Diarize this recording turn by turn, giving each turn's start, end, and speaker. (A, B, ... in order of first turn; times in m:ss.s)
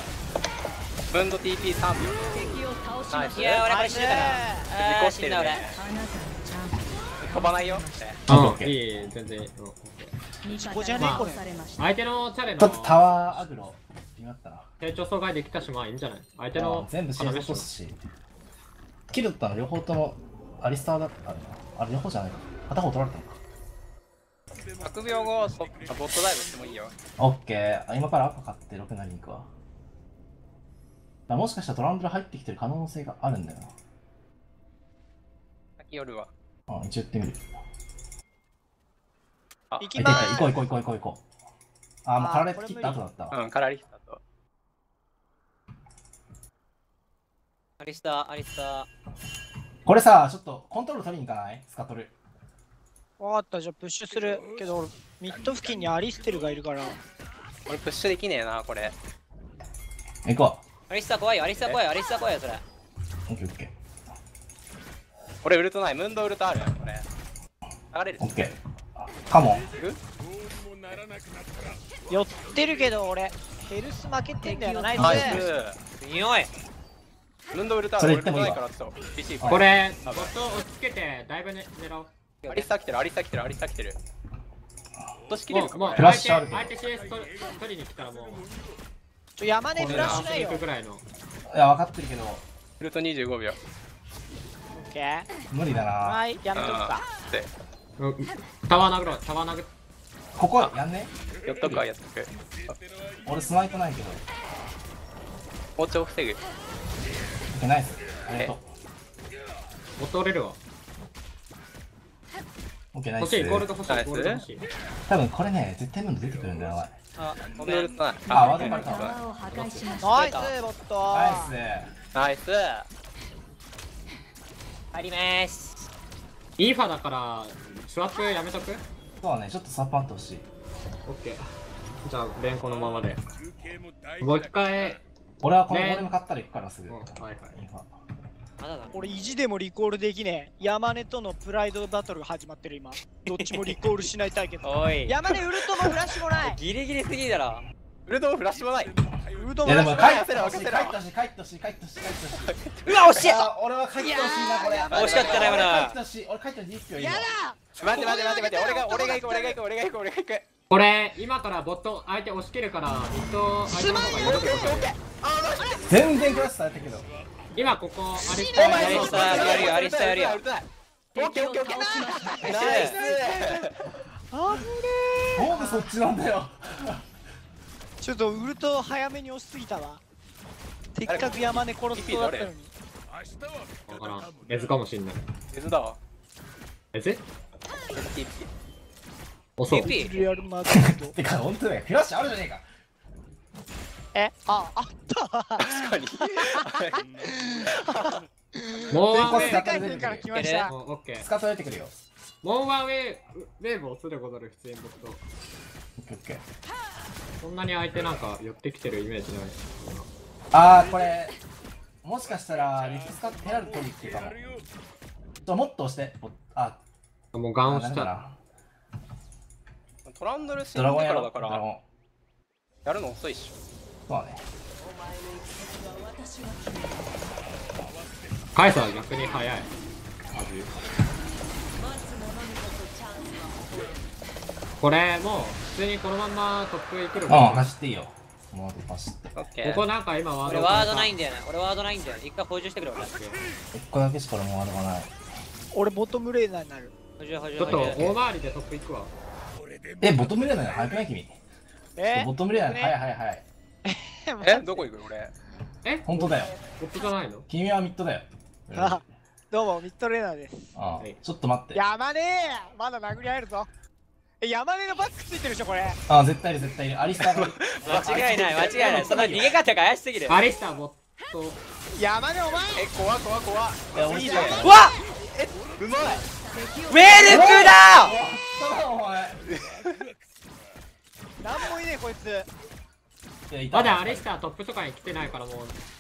0:01.1-0:05.8 A
0:02.2-0:03.6 B
0:03.3-0:05.7 C
0:03.6-0:04.7 D
0:05.7-0:08.2 B
0:07.2-0:08.2 A
0:08.3-0:08.8 E
0:08.3-0:10.2 F
0:10.4-0:11.9 B
0:10.5-0:11.4 D
0:11.0-0:11.3 F
0:11.8-0:13.6 F
0:12.6-0:14.7 E
0:14.8-0:17.7 F
0:16.6-0:18.0 E
0:19.1-0:23.4 E
0:24.8-0:27.0 A
0:27.2-0:29.5 E
0:31.3-0:33.7 E
0:35.8-0:36.3 A
0:36.7-0:37.5 E
0:39.7-0:40.0 A
0:39.8-0:40.6 D
0:40.0-0:41.2 E
0:42.0-0:43.4 E
0:42.2-0:43.0 D
0:43.3-0:44.2 A
0:47.8-0:48.9 C
0:49.8-0:52.2 E
0:53.2-0:57.0 D
0:57.7-0:59.0 A
1:00.2-1:00.6 E
1:00.9-1:02.6 C
1:03.3-1:03.7 E
1:05.4-1:07.0 A
1:07.9-1:08.5 A
1:08.2-1:09.7 E
1:09.4-1:10.0 A
1:12.1-1:15.4 D
1:14.4-1:15.5 B
1:15.0-1:15.8 A
1:15.0-1:15.4 E
1:16.0-1:16.5 C
1:17.5-1:20.3 A
1:18.0-1:18.6 E
1:19.4-1:22.1 F
1:22.4-1:22.7 C
1:22.5-1:24.0 A
1:25.3-1:26.2 A
1:25.5-1:28.5 F
1:26.0-1:26.7 E
1:29.4-1:30.6 D
1:29.7-1:30.3 E
1:29.9-1:31.0 F
1:31.5-1:32.4 E
1:32.8-1:33.6 A
1:34.7-1:35.3 D
1:35.5-1:36.2 E
1:36.0-1:37.0 D
1:36.6-1:37.5 A
1:38.0-1:39.7 F
1:40.4-1:41.1 E
1:41.5-1:42.3 A
1:42.7-1:44.2 E
1:45.8-1:46.4 A
1:47.5-1:48.7 E
1:50.0-1:50.6 F
1:52.9-1:53.7 E
1:53.2-1:54.7 F
1:53.9-1:54.4 A
1:55.1-1:57.0 E
1:57.2-1:58.0 C
1:57.4-1:59.2 A
1:58.3-2:00.5 B
1:58.3-1:59.1 E
1:59.5-1:59.9 F
2:00.0-2:01.5 D
2:00.1-2:00.5 C
2:01.1-2:01.9 E
2:02.1-2:02.9 A
2:04.9-2:05.8 C
2:06.6-2:08.8 F
2:09.2-2:10.5 E
2:11.1-2:11.5 F
2:12.0-2:13.2 F
2:14.2-2:15.0 F
2:15.4-2:17.0 E
2:15.7-2:16.1 F
2:16.9-2:17.6 F
2:17.6-2:17.9 E
2:18.6-2:19.1 C
2:18.9-2:26.6 D
2:23.3-2:23.8 C
2:24.6-2:25.2 C
2:26.3-2:27.7 C
2:28.1-2:29.0 A
2:29.4-2:30.1 D
2:29.6-2:32.5 E
2:29.8-2:31.0 A
2:32.4-2:33.4 A
2:32.9-2:33.5 C
2:33.1-2:37.3 E
2:34.0-2:35.7 D
2:34.9-2:35.7 A
2:34.9-2:36.0 C
2:37.0-2:39.6 D
2:37.8-2:40.5 A
2:40.7-2:44.9 F
2:43.7-2:44.2 D
2:44.1-2:46.1 A
2:45.9-2:47.1 E
2:47.6-2:49.5 F
2:48.2-2:49.3 D
2:48.5-2:53.7 A
2:48.6-2:49.1 E
2:48.7-2:50.4 C
2:51.1-2:52.8 B
2:51.8-2:53.7 D
2:52.5-2:53.0 C
2:54.3-2:55.9 D
2:55.4-2:57.0 E
2:58.0-3:00.0 D
3:01.0-3:02.7 D
3:01.1-3:02.5 A
3:03.9-3:05.2 F
3:05.5-3:06.0 A
3:06.9-3:07.2 F
3:07.9-3:08.5 A
3:09.6-3:10.1 F
3:09.7-3:10.2 C
3:09.7-3:11.2 D
3:10.7-3:12.6 E
3:14.1-3:20.7 D
3:15.6-3:17.0 A
3:18.9-3:20.0 F
3:19.1-3:20.3 E
3:20.3-3:20.7 C
3:20.6-3:21.3 F
3:21.2-3:21.9 E
3:22.4-3:25.2 F
3:26.0-3:26.4 E
3:27.4-3:30.1 F
3:30.5-3:31.4 E
3:32.0-3:34.4 E
3:35.4-3:36.8 E
3:37.3-3:38.1 F
3:37.6-3:38.4 E
3:40.1-3:41.6 A
3:40.7-3:41.8 E
3:42.8-3:43.6 A
3:44.1-3:44.4 E
3:44.9-3:47.2 B
3:48.5-3:49.7 F
3:50.3-3:50.7 F
3:51.8-3:54.0 B
3:54.8-3:57.7 F
3:57.3-3:59.4 E
3:59.4-3:59.9 A
3:59.6-4:01.1 F
4:00.4-4:03.2 C
4:03.7-4:05.1 E
4:05.7-4:06.9 D
4:07.2-4:08.2 C
4:07.6-4:09.1 F
4:07.7-4:08.1 E
4:10.0-4:11.4 E
4:12.0-4:13.0 D
4:12.1-4:13.4 E
4:13.8-4:14.9 D
4:14.4-4:15.3 A
4:15.8-4:17.5 F
4:16.1-4:16.5 E
4:17.5-4:19.1 E
4:18.7-4:20.7 D
4:20.8-4:21.8 E
4:21.7-4:23.7 D
4:24.4-4:26.0 D
4:26.1-4:29.3 E
4:27.2-4:29.6 A
4:27.8-4:30.4 C
4:30.3-4:31.6 F
4:32.0-4:32.9 D
4:32.8-4:34.6 A
4:33.9-4:34.9 E
4:34.0-4:34.6 D
4:34.6-4:35.0 C
4:35.2-4:36.2 A
4:36.5-4:37.7 B
4:36.9-4:38.2 C
4:37.2-4:39.4 E
4:39.5-4:39.9 A
4:41.4-4:42.5 D
4:43.5-4:44.3 E
4:43.7-4:45.8 F